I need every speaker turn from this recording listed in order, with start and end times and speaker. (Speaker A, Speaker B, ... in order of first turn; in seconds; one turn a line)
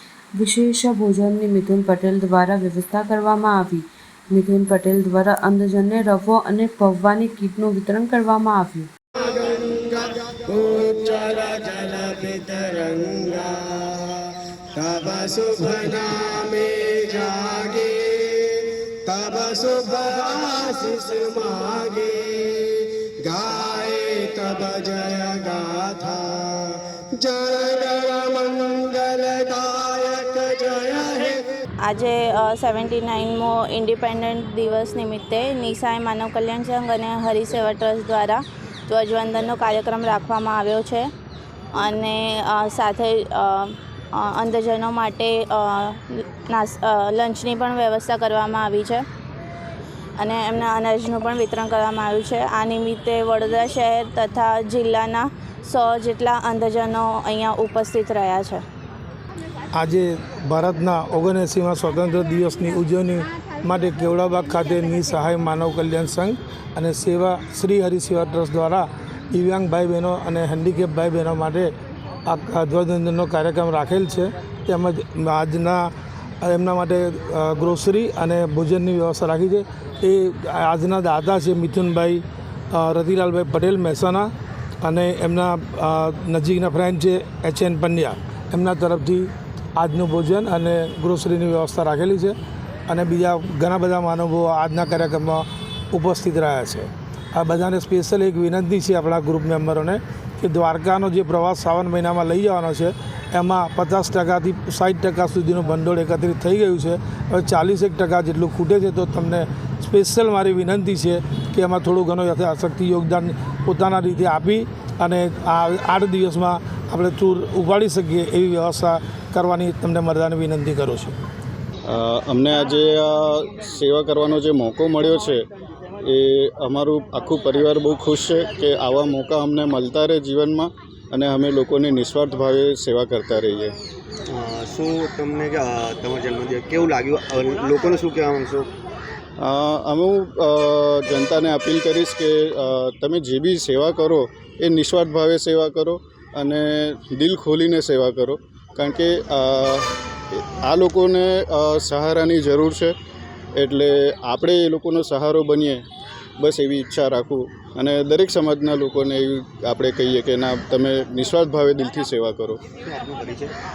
Speaker A: 0.4-8.9
Speaker B: 9.2-31.6
Speaker C: 31.8-41.1
Speaker C: 41.7-49.0
Speaker C: 50.2-58.6
Speaker D: 59.7-71.7
Speaker D: 72.3-75.9
Speaker D: 76.4-84.3
Speaker D: 84.8-92.3
Speaker D: 92.9-121.1
Speaker E: 121.9-125.4
Speaker E: 126.0-133.7
Speaker F: 134.3-138.7
Speaker E: 139.4-152.9
Speaker E: 153.6-155.8
Speaker E: 156.4-162.6
Speaker F: 162.8-163.5